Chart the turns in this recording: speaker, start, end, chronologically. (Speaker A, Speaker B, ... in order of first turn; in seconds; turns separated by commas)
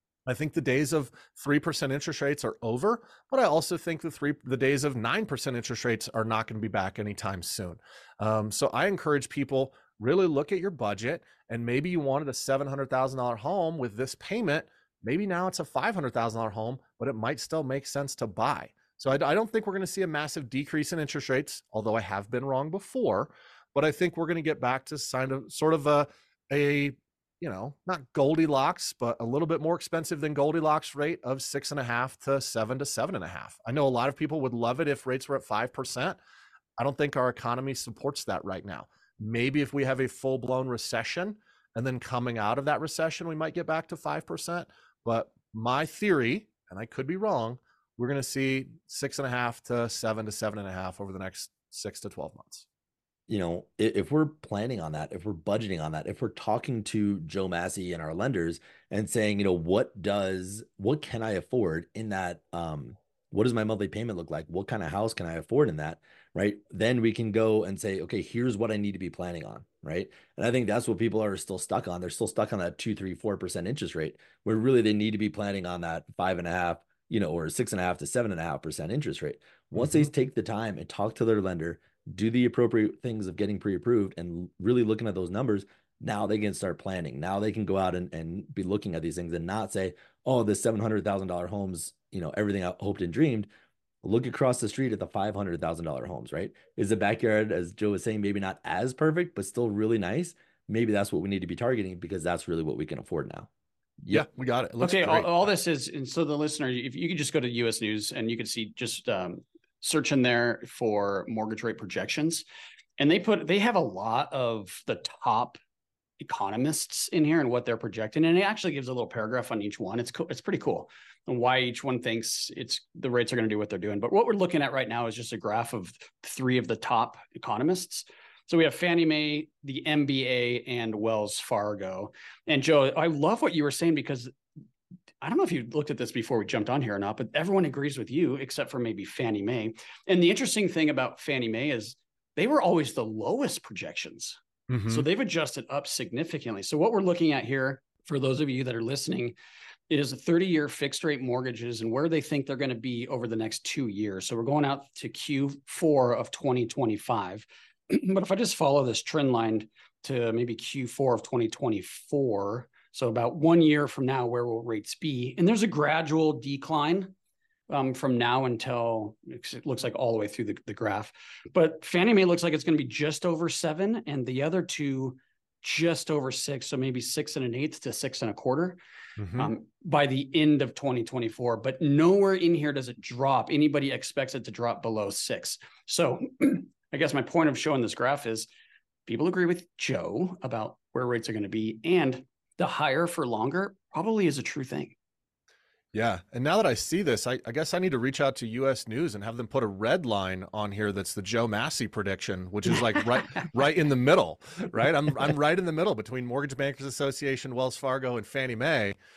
Speaker A: 0.2-36.2, Speaker A: 36.8-52.6, Speaker B: 53.3-93.5, Speaker A: 79.8-80.1, Speaker B: 94.0-103.5, Speaker A: 104.1-105.5, Speaker C: 104.8-112.4, Speaker C: 113.0-115.6, Speaker C: 116.2-134.3, Speaker C: 135.2-149.4, Speaker A: 144.7-145.0, Speaker C: 149.9-167.1, Speaker C: 167.7-178.8, Speaker A: 179.2-179.5, Speaker C: 179.4-188.5, Speaker C: 189.1-194.9, Speaker A: 195.9-208.9